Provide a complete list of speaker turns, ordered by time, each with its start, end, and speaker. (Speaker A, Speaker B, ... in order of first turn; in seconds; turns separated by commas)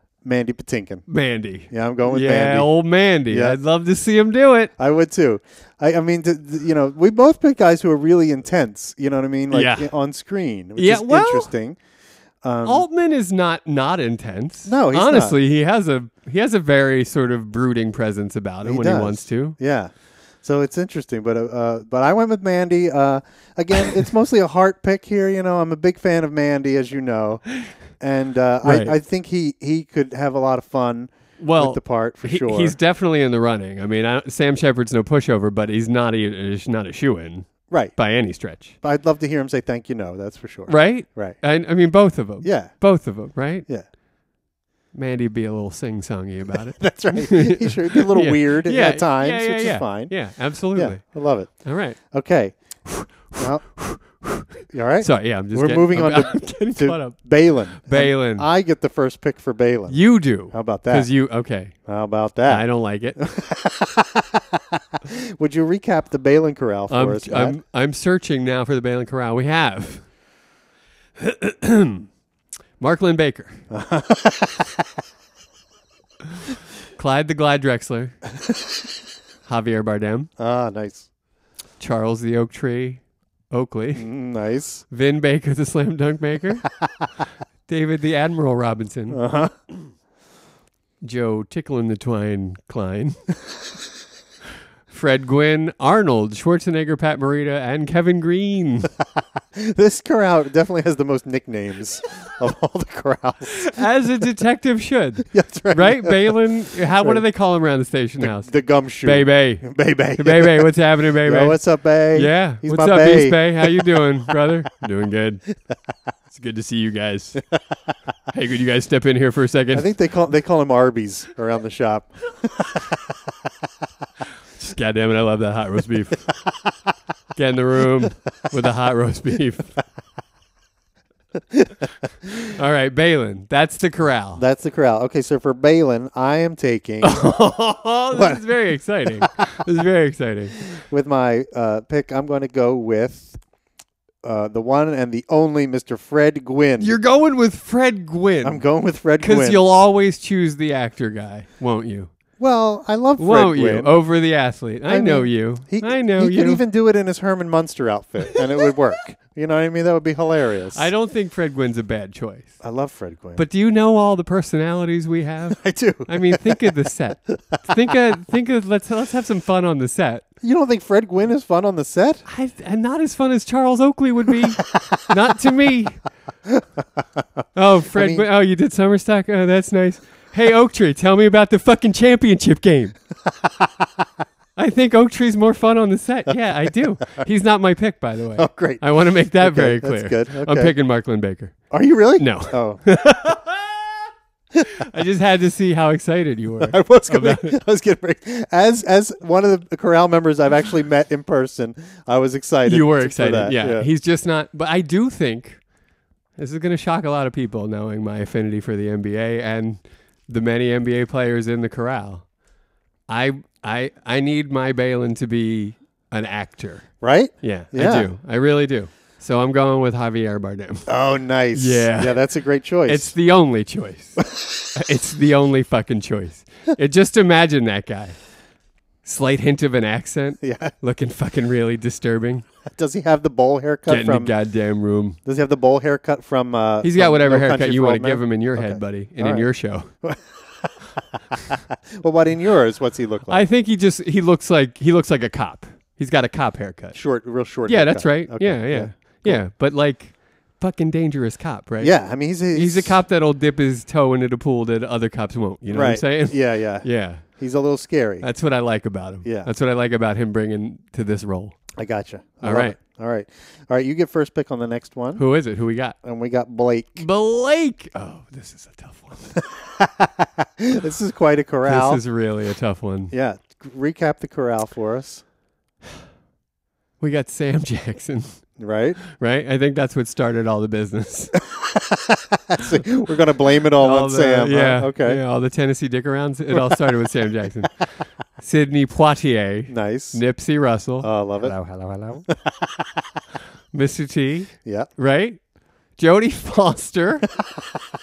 Speaker A: 0.2-1.0, Speaker B: 1.1-4.7, Speaker A: 1.7-2.7, Speaker A: 3.3-3.6, Speaker A: 4.8-11.8, Speaker B: 9.5-9.9, Speaker B: 10.8-11.5, Speaker A: 12.4-12.8, Speaker B: 12.6-19.6, Speaker A: 14.7-15.3, Speaker A: 18.6-19.9, Speaker A: 20.4-27.4, Speaker A: 28.0-32.8, Speaker B: 28.6-28.9, Speaker B: 31.4-38.8, Speaker A: 37.7-37.9, Speaker A: 38.8-41.4, Speaker B: 40.7-43.7, Speaker A: 42.4-42.8, Speaker B: 44.9-51.0, Speaker A: 46.8-50.2, Speaker A: 50.7-52.6, Speaker B: 51.6-52.0, Speaker B: 52.8-58.5, Speaker A: 53.4-53.6, Speaker A: 54.7-61.1, Speaker B: 59.9-61.8, Speaker A: 61.9-67.6, Speaker B: 62.5-63.2, Speaker B: 66.9-70.1, Speaker B: 71.2-72.1, Speaker B: 72.8-73.6, Speaker A: 73.7-74.8, Speaker B: 77.0-78.2, Speaker B: 79.5-80.3, Speaker A: 80.4-81.1, Speaker B: 81.8-84.1, Speaker A: 83.9-84.8, Speaker B: 84.9-86.7, Speaker B: 87.7-89.2, Speaker A: 89.1-89.5, Speaker B: 91.0-93.2, Speaker B: 94.9-98.9, Speaker A: 99.5-103.7, Speaker B: 103.5-108.5, Speaker A: 105.3-106.5, Speaker A: 107.0-107.2, Speaker A: 108.2-113.9, Speaker B: 109.0-111.6, Speaker B: 112.1-115.4, Speaker B: 116.3-117.4, Speaker B: 118.3-119.9, Speaker A: 119.7-123.2, Speaker B: 124.5-126.3, Speaker B: 127.3-129.8, Speaker B: 132.4-134.4, Speaker A: 134.3-137.3, Speaker B: 137.0-140.6, Speaker A: 138.1-138.5, Speaker A: 140.7-143.4, Speaker A: 144.2-147.0, Speaker B: 146.8-148.6, Speaker A: 148.4-149.6, Speaker B: 149.2-152.1, Speaker A: 152.4-153.9, Speaker B: 153.2-156.6, Speaker A: 154.9-160.9, Speaker B: 160.7-162.5, Speaker A: 162.6-163.4, Speaker B: 163.3-170.2, Speaker A: 165.5-166.7, Speaker A: 170.4-172.2, Speaker B: 172.2-176.1, Speaker B: 177.5-182.9, Speaker A: 177.9-178.2, Speaker B: 184.6-191.6, Speaker A: 188.4-190.7, Speaker A: 191.7-192.8, Speaker B: 192.2-193.9, Speaker B: 194.7-197.6, Speaker A: 196.6-203.9, Speaker B: 202.6-205.6, Speaker B: 206.3-212.3, Speaker B: 213.1-220.9, Speaker A: 217.0-218.1, Speaker A: 220.9-223.1, Speaker B: 221.5-222.2, Speaker B: 222.8-228.2, Speaker A: 224.3-224.7, Speaker B: 229.0-232.4, Speaker A: 230.4-230.7, Speaker A: 232.7-234.3, Speaker B: 233.9-235.2, Speaker A: 235.2-243.4, Speaker B: 236.8-239.9, Speaker B: 243.3-247.0, Speaker A: 246.9-249.4, Speaker B: 247.7-251.9, Speaker A: 251.8-253.0, Speaker B: 252.5-257.2, Speaker A: 255.7-258.2, Speaker B: 258.2-261.6, Speaker A: 259.2-259.5, Speaker A: 261.7-265.2, Speaker B: 262.4-262.8, Speaker B: 265.1-265.9, Speaker A: 266.0-267.0, Speaker B: 267.0-269.3, Speaker A: 269.4-272.0, Speaker B: 271.7-273.1, Speaker A: 273.1-275.2, Speaker B: 277.0-278.4, Speaker A: 278.6-279.0, Speaker B: 279.0-281.3, Speaker A: 281.4-285.2, Speaker B: 283.8-292.2, Speaker A: 289.7-290.2, Speaker A: 291.0-291.6, Speaker A: 292.3-293.1, Speaker B: 293.7-295.4, Speaker A: 294.6-294.9, Speaker B: 295.9-297.3